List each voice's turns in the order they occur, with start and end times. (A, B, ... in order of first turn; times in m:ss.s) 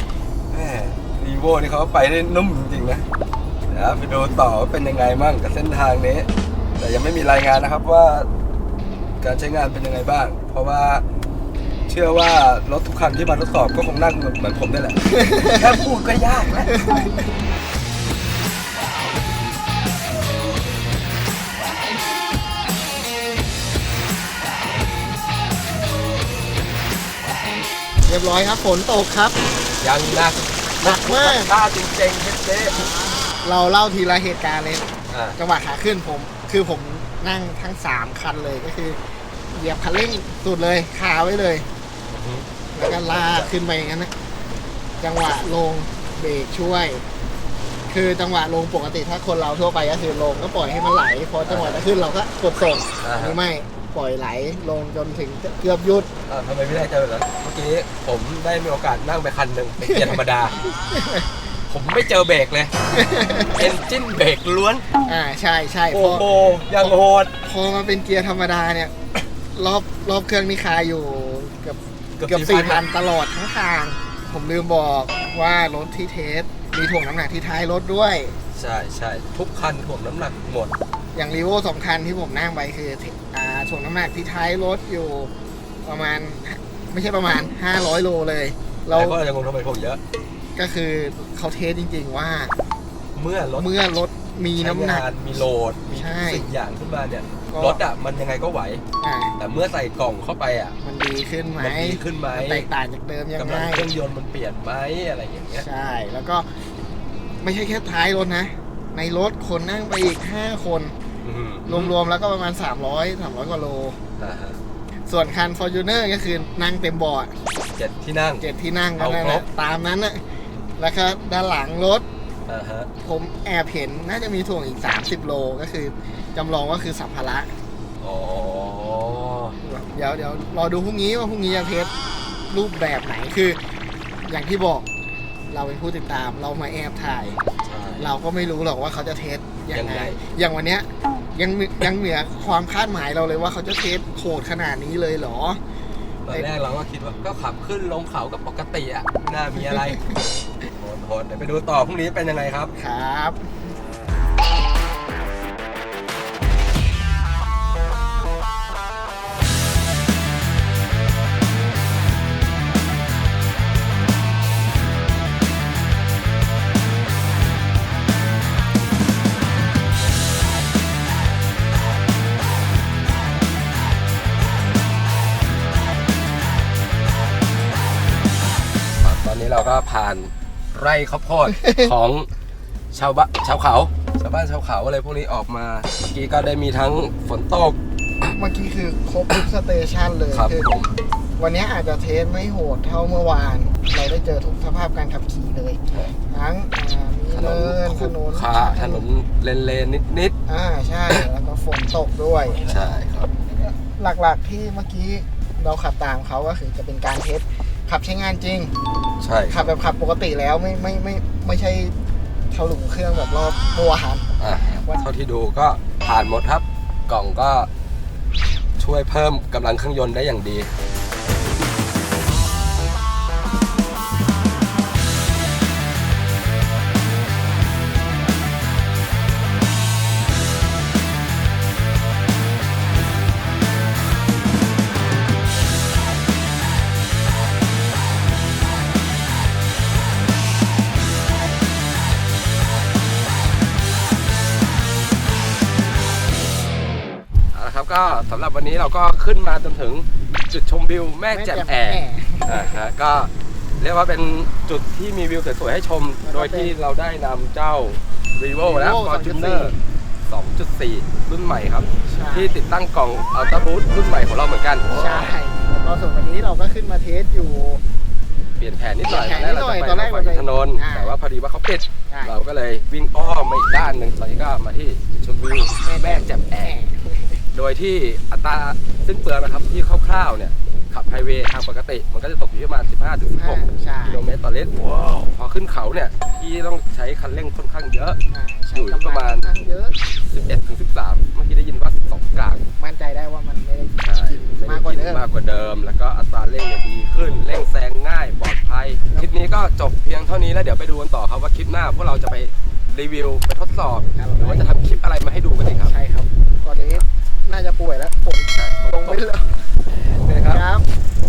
0:00.5-0:03.1 A
0:03.7-0:06.3 A
0:06.8-0:08.3 A
0:09.2-0:11.0 A
0:11.9-0:16.8 A
0:15.1-0:15.6 B
0:16.7-0:17.2 B
0:28.0-0:29.4 B
0:29.8-0:32.9 A
0:30.8-0:31.5 B
0:33.4-0:39.0 B
0:35.1-0:35.4 A
0:39.5-0:41.7 B
0:42.1-0:43.5 A
0:42.7-0:44.1 B
0:45.0-0:47.0 B
0:47.9-0:56.1 B
0:51.4-0:51.8 A
0:53.0-0:53.4 A
0:56.3-1:00.6 A
0:59.8-1:01.3 B
1:01.7-1:02.7 A
1:02.9-1:03.7 B
1:03.5-1:04.8 A
1:05.0-1:08.9 B
1:05.9-1:07.3 A
1:09.5-1:18.4 B
1:12.2-1:12.8 A
1:18.5-1:20.7 A
1:21.1-1:25.3 B
1:25.8-1:29.2 B
1:28.9-1:30.0 A
1:30.5-1:32.5 B
1:33.1-1:33.7 A
1:33.6-1:35.1 B
1:34.6-1:38.8 A
1:35.9-1:36.5 B
1:37.5-1:37.8 B
1:39.0-1:39.4 B
1:39.4-1:40.7 A
1:40.8-1:43.9 B
1:41.6-1:42.7 A
1:43.4-1:45.6 A
1:45.5-1:46.6 B
1:47.4-1:50.9 B
1:51.2-1:51.9 A
1:51.7-1:54.0 B
1:54.2-1:54.6 A
1:55.1-1:57.4 B
1:57.7-1:58.4 A
1:58.4-2:02.0 B
1:59.0-1:59.4 A
2:02.5-2:02.9 A
2:03.0-2:07.5 B
2:08.0-2:09.6 A
2:09.6-2:11.9 B
2:12.5-2:14.9 B
2:15.5-2:17.4 B
2:17.6-2:18.1 A
2:18.0-2:25.6 B
2:19.7-2:20.2 A
2:26.2-2:30.2 A
2:29.7-2:30.0 B
2:30.7-2:32.7 A
2:32.8-2:33.5 B
2:59.0-3:02.3 A
3:01.5-3:01.9 B
3:02.9-3:07.8 A
3:08.2-3:10.8 B
3:10.3-3:11.0 A
3:11.4-3:19.0 B
3:17.3-3:20.4 A
3:20.5-3:22.6 B
3:22.5-3:23.3 A
3:23.5-3:28.7 B
3:29.2-3:29.7 A
3:29.5-3:31.9 B
3:32.5-3:35.0 B
3:34.4-3:37.7 A
3:38.8-3:40.7 A
4:07.5-4:19.7 A
4:11.3-4:12.8 B
4:16.2-4:16.8 B
4:18.6-4:19.8 B
4:20.2-4:24.9 A
4:22.1-4:22.5 B
4:24.9-4:27.8 B
4:28.6-4:36.7 A
4:29.1-4:31.2 B
4:35.8-4:37.4 B
4:37.5-4:48.2 A
4:43.3-4:44.2 B
4:48.3-4:50.0 B
4:48.7-4:49.5 A
4:50.2-4:52.6 A
4:52.8-4:55.2 B
4:54.0-5:05.9 A
5:04.2-5:05.0 B
5:05.8-5:09.6 B
5:06.6-5:07.0 A
5:08.5-5:09.2 A
5:10.0-5:10.6 A
5:10.4-5:10.9 B